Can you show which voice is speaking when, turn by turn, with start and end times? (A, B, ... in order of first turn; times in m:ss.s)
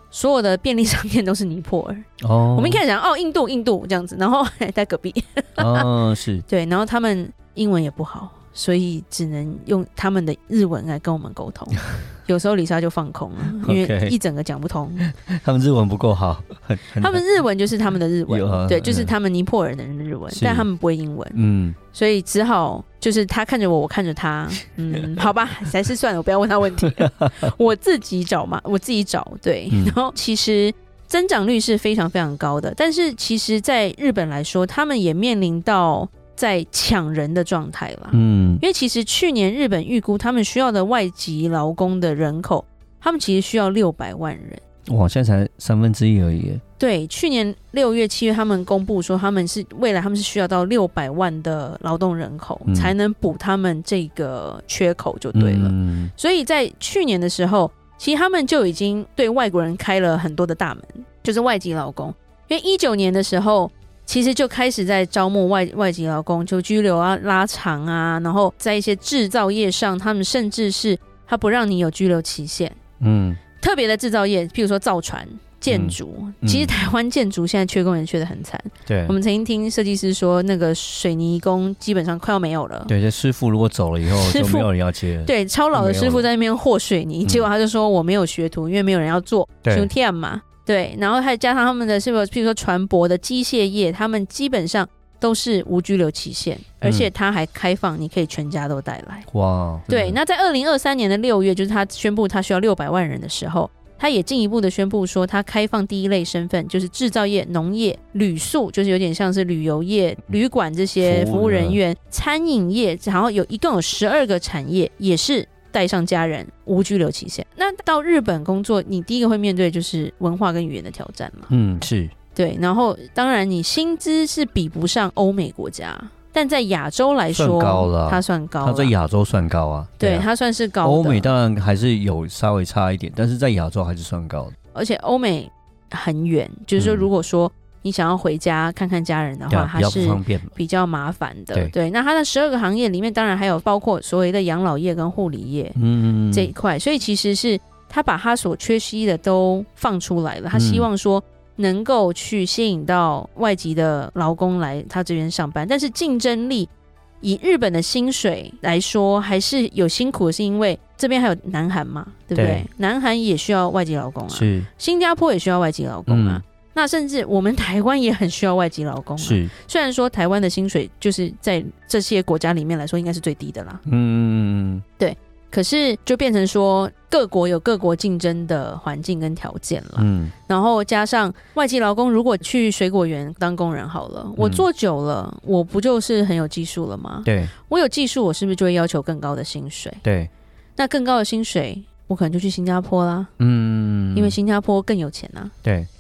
0:00.1-0:05.9 A
0:02.2-0:02.8 B
0:05.6-0:06.4 B
0:06.5-0:15.0 A
0:13.6-0:14.2 B
0:15.0-0:17.2 B
0:17.0-0:21.4 A
0:18.3-0:19.1 B
0:20.3-0:20.7 B
0:21.3-0:21.8 B
0:21.9-0:44.6 A
0:26.8-0:27.3 B
0:29.7-0:30.0 B
0:38.1-0:38.6 B
0:44.9-0:46.6 B
0:46.8-1:12.8 A
0:52.7-0:52.9 B
0:55.3-0:56.1 B
1:13.0-1:13.4 B
1:13.6-1:22.9 A
1:15.7-1:16.8 B
1:18.8-1:19.2 B
1:22.9-1:26.2 B
1:24.0-1:24.7 A
1:25.2-1:39.3 A
1:29.6-1:29.9 B
1:36.8-1:37.1 B
1:39.3-1:40.2 B
1:39.9-2:01.5 A
1:51.0-1:51.8 B
2:01.5-2:02.1 B
2:02.3-2:08.9 A
2:07.3-2:10.3 B
2:10.0-2:11.3 A
2:10.8-2:14.5 B
2:14.7-2:25.8 A
2:16.8-2:17.1 B
2:19.5-2:20.5 B
2:25.8-2:26.5 B
2:26.3-2:53.8 A
2:30.5-2:30.9 B
2:42.3-2:42.7 B
2:44.3-2:44.7 B
2:46.1-2:46.4 B
2:49.2-2:49.5 B
2:53.9-2:54.8 B
2:55.0-3:10.0 A
3:00.0-3:00.3 B
3:04.4-3:04.6 B
3:07.2-3:07.5 B
3:10.0-3:10.3 B
3:10.8-3:13.3 A
3:13.4-3:14.4 B
3:14.1-3:15.5 A
3:15.6-3:15.9 B